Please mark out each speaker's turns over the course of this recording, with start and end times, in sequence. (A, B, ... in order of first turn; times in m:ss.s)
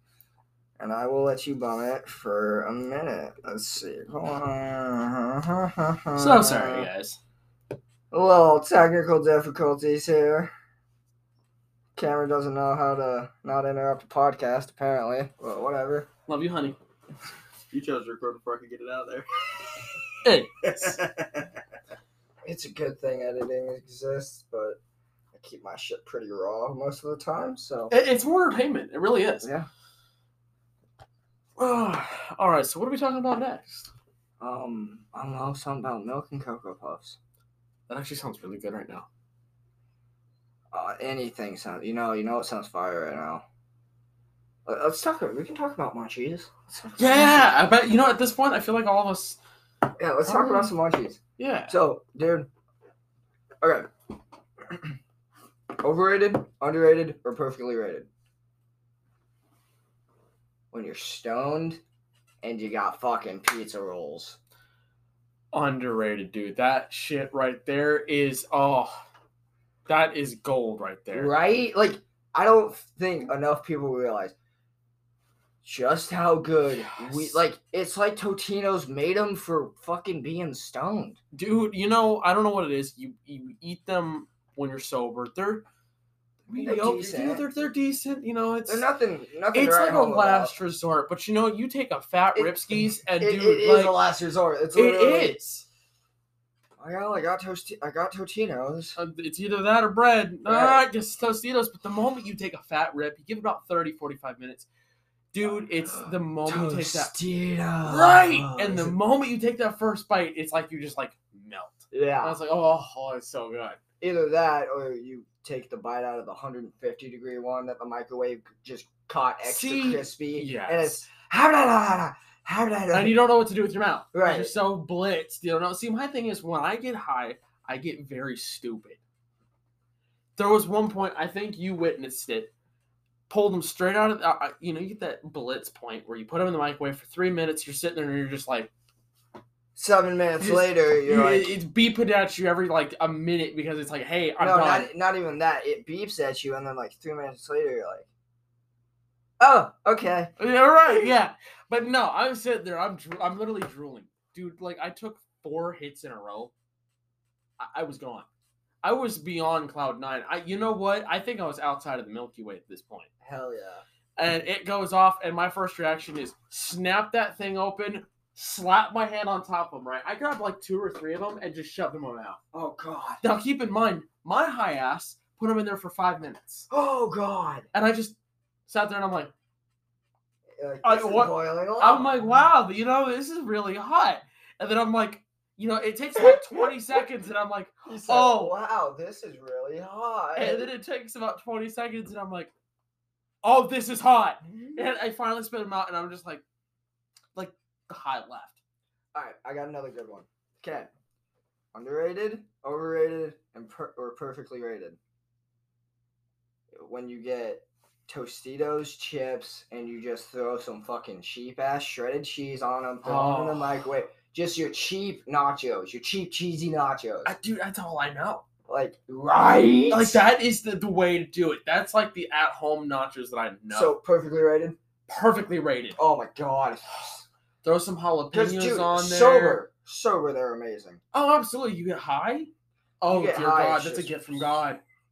0:00.8-0:06.9 A
0:06.2-0:07.2 B
0:08.1-0:10.5 A
0:12.0-0:16.1 A
0:16.3-0:16.8 B
0:17.7-0:19.9 C
0:20.2-0:21.0 B
0:20.6-0:21.5 C
0:22.4-0:24.8 A
0:25.3-0:27.9 A
0:27.9-0:29.5 B
0:29.4-0:29.7 A
0:31.6-0:33.9 B
0:34.4-0:37.2 A
0:37.9-0:39.1 B
0:40.7-0:43.4 A
0:44.6-0:47.6 A
0:47.0-0:49.4 B
0:50.0-0:52.5 A
0:50.3-0:50.7 B
0:51.4-0:51.7 B
0:53.6-0:53.9 A
0:55.8-0:58.1 A
1:00.7-1:01.8 A
1:02.4-1:04.4 A
1:05.5-1:09.0 B
1:09.9-1:11.3 B
1:11.1-1:14.3 A
1:15.6-1:21.2 A
1:16.7-1:17.4 B
1:21.3-1:25.6 B
1:26.5-1:28.9 B
1:26.5-1:27.4 A
1:28.7-1:30.6 A
1:29.5-1:34.0 B
1:32.4-1:35.4 A
1:34.7-1:35.6 B
1:36.8-1:39.0 A
1:39.0-1:44.7 B
1:40.4-1:40.8 A
1:45.3-1:47.1 B
1:45.4-1:48.9 A
1:47.8-1:53.8 B
1:51.9-1:52.4 A
1:54.0-2:03.2 A
1:59.4-2:01.0 B
2:02.9-2:09.0 B
2:04.1-2:04.5 A
2:10.4-2:12.5 B
2:13.3-2:18.7 B
2:19.8-2:21.5 A
2:20.4-2:24.9 B
2:24.4-2:28.1 A
2:29.4-2:30.3 A
2:30.4-2:36.5 B
2:37.6-2:38.3 B
2:38.8-2:43.1 B
2:43.2-2:43.8 A
2:44.2-2:52.4 B
2:52.5-2:53.2 A
2:53.2-2:56.7 B
2:56.7-2:57.6 A
2:57.7-2:58.2 B
2:58.7-2:59.3 B
3:00.6-3:02.3 A
3:00.8-3:08.6 B
3:07.8-3:10.7 A
3:10.4-3:12.5 B
3:13.4-3:16.4 B
3:14.5-3:14.8 A
3:17.4-3:18.6 B
3:19.1-3:20.9 A
3:21.7-3:25.0 A
3:26.7-3:37.4 A
3:33.0-3:33.8 B
3:37.2-3:38.4 B
3:38.7-3:40.2 A
3:39.9-3:43.9 B
3:43.7-3:44.8 A
3:45.1-3:46.0 B
3:46.0-3:47.2 A
3:47.6-3:49.6 B
3:48.3-3:51.0 A
3:51.1-3:52.5 B
3:53.0-3:54.8 B
3:53.1-3:54.5 A